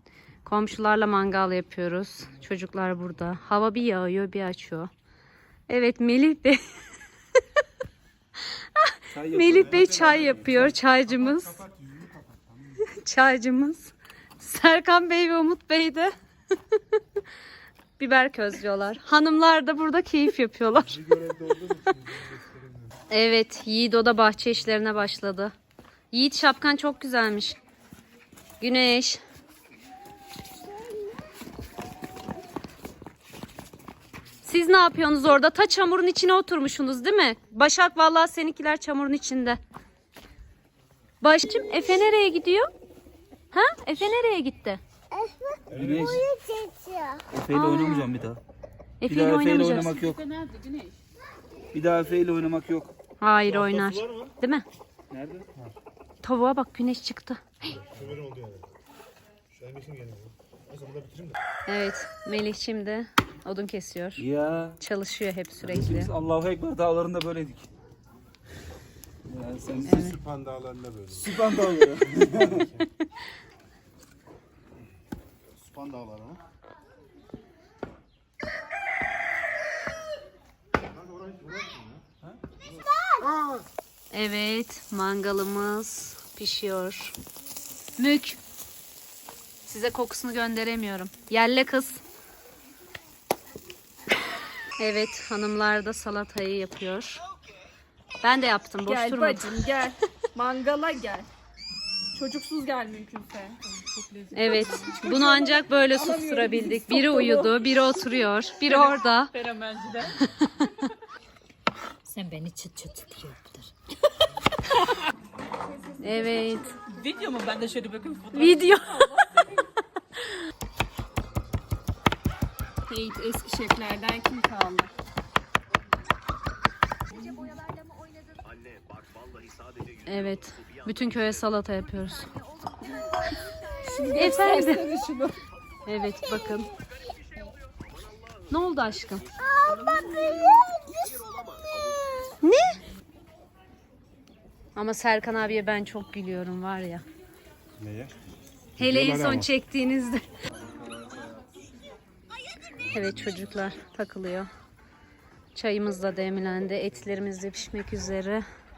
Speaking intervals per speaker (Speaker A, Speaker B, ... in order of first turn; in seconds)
Speaker A: 0.5-4.9, 5.7-6.6, 8.8-11.6, 12.8-16.1, 18.0-21.0, 23.1-25.5, 26.1-27.6, 28.6-29.2, 34.4-39.6, 41.2-42.7, 43.5-44.8, 47.5-48.1, 49.0-50.0, 53.2-54.6, 56.2-57.7, 61.7-64.2, 64.8-66.1, 69.8-70.2, 84.1-87.2, 88.0-88.4, 89.7-92.0, 94.8-97.2, 98.2-99.5, 104.3-109.3, 116.0-116.8, 118.3-119.0, 130.1-132.3, 134.2-134.8, 135.9-136.7, 138.5-139.2, 142.4-142.8, 144.8-147.1, 148.8-150.2, 152.9-154.5, 155.6-158.4
Speaker B: 9.1-10.7, 45.7-46.3, 47.3-48.4, 49.1-50.2, 51.7-52.9, 55.1-55.5, 64.2-64.8, 65.6-67.7, 69.3-70.2, 71.1-72.7, 150.6-151.4
Speaker C: 11.7-12.4, 20.8-22.9, 45.7-46.2, 53.5-54.3, 57.7-58.7, 59.5-61.4, 69.9-71.2, 72.5-72.8, 75.7-76.4, 81.0-82.0, 147.8-148.2, 148.8-149.5
Speaker D: 45.2-45.5, 46.2-47.2, 112.1-113.7
Speaker E: 50.1-51.0, 98.8-101.3, 102.1-107.5, 108.7-110.2, 115.9-119.7, 122.9-124.9, 133.8-135.4